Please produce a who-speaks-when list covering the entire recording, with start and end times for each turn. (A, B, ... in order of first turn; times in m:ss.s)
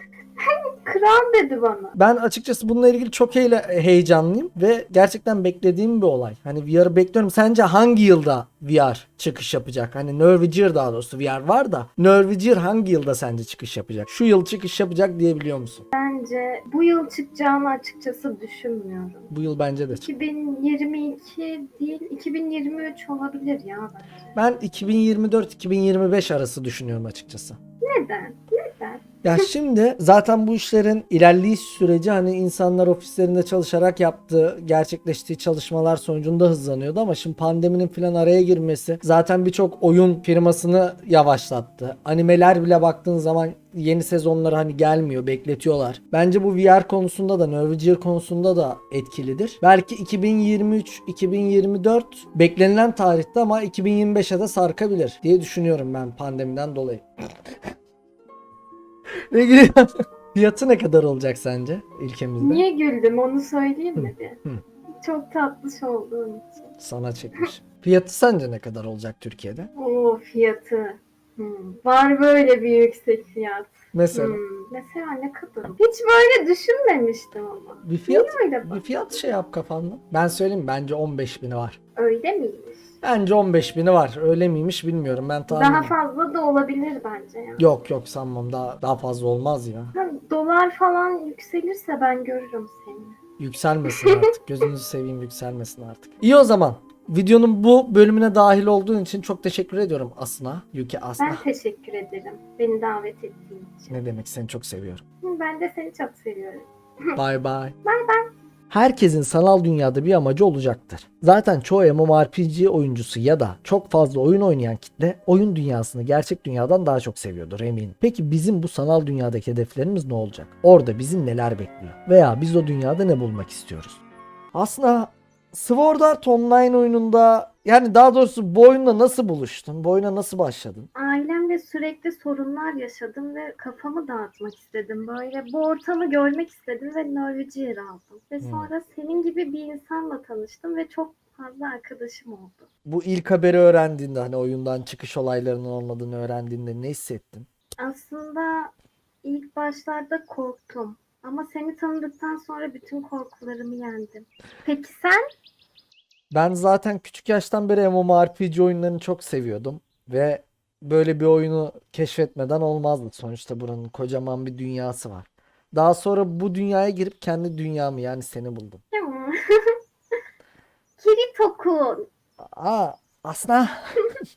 0:00.4-0:01.9 A
0:01.9-0:15.8 B
0:15.9-0:19.3 A
0:19.3-0:20.1 B
0:20.0-0:24.4 A
0:24.3-0:27.6 B
0:27.8-0:29.5 A
0:29.2-0:57.5 B
0:59.3-1:02.6 B
1:02.4-1:04.4 A
1:04.0-1:04.6 B
1:05.0-1:06.7 A
1:06.8-1:09.7 B
1:09.8-1:19.2 A
1:13.9-1:14.4 B
1:17.8-1:21.8 B
1:22.0-1:22.9 A
1:23.0-1:25.9 B
1:25.5-1:27.7 A
1:27.6-1:29.9 B
1:29.9-1:33.2 A
1:33.4-1:41.4 B
1:33.9-1:34.2 A
1:41.2-1:44.0 A
1:43.9-1:45.0 B
1:45.2-1:47.2 A
1:47.1-1:47.7 B
1:47.8-1:48.3 A
1:48.7-2:04.0 B
2:04.5-2:10.9 B
2:10.9-2:22.7 A
2:18.4-2:18.7 B
2:22.8-2:27.5 B
2:27.8-2:28.7 A
2:29.2-2:35.2 A
2:36.3-2:48.8 B
2:48.9-2:50.1 A
2:51.0-2:52.1 A
2:52.4-2:54.1 B